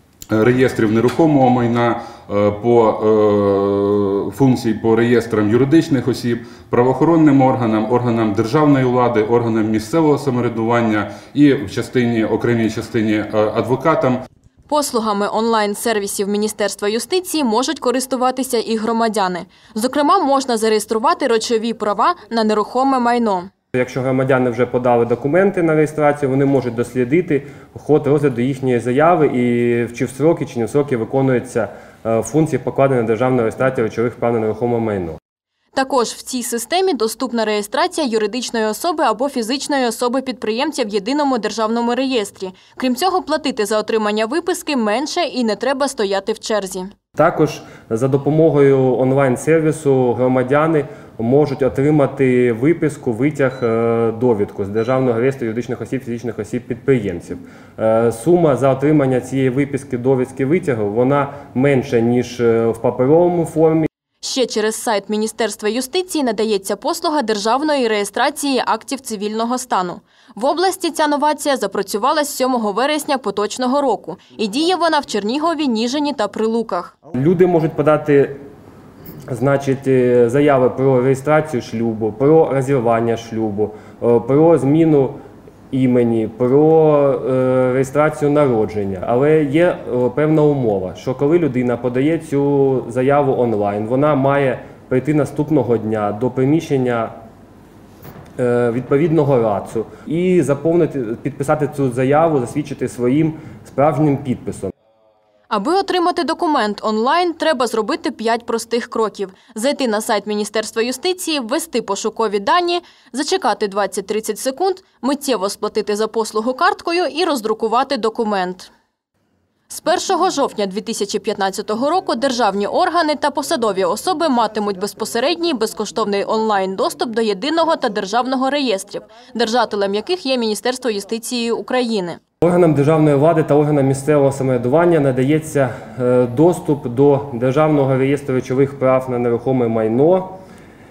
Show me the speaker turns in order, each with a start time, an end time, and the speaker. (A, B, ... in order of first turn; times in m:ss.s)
0:00.3-0:14.2 A
0:14.7-0:23.5 B
0:23.7-0:35.2 C
0:35.8-0:46.9 B
0:47.2-1:03.9 C
1:04.2-1:16.9 B
1:17.1-1:18.4 C
1:19.3-1:25.2 C
1:25.7-1:37.1 C
1:38.4-1:44.7 C
1:45.5-1:58.7 B
1:59.7-2:12.2 B
2:12.4-2:20.4 C